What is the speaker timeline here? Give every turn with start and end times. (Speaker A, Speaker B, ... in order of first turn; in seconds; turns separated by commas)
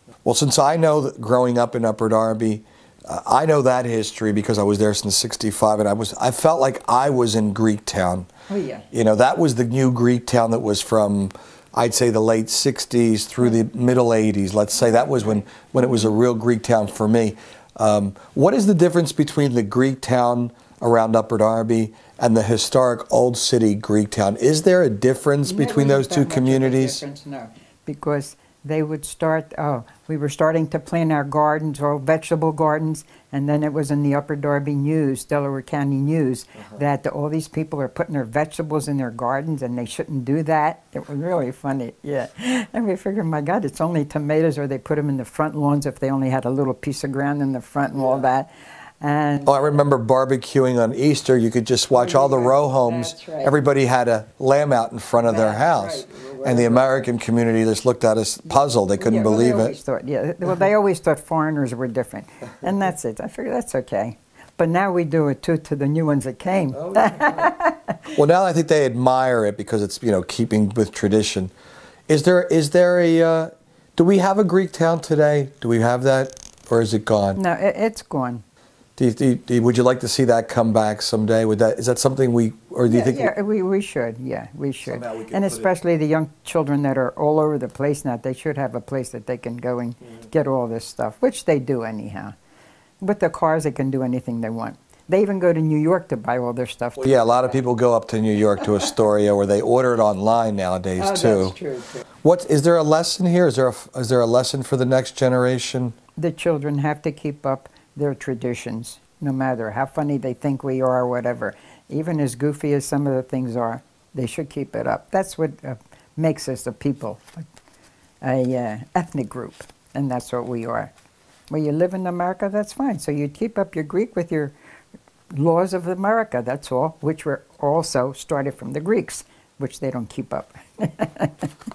Speaker A: 0.2-8.3, Speaker B: 8.5-8.9, Speaker A: 8.9-27.0, Speaker B: 14.8-15.7, Speaker B: 25.4-49.8, Speaker A: 49.4-59.7, Speaker B: 51.9-53.5, Speaker B: 55.2-57.1, Speaker B: 59.0-68.0, Speaker A: 66.7-67.5, Speaker A: 68.1-71.5, Speaker A: 72.1-77.4, Speaker B: 77.3-78.4, Speaker A: 79.0-83.3, Speaker B: 82.9-92.3, Speaker A: 84.8-85.7, Speaker B: 93.0-97.6, Speaker A: 97.0-101.6, Speaker B: 101.0-102.0, Speaker A: 102.2-105.9, Speaker B: 106.2-117.4, Speaker B: 118.2-120.9, Speaker B: 121.5-124.5, Speaker B: 125.3-131.5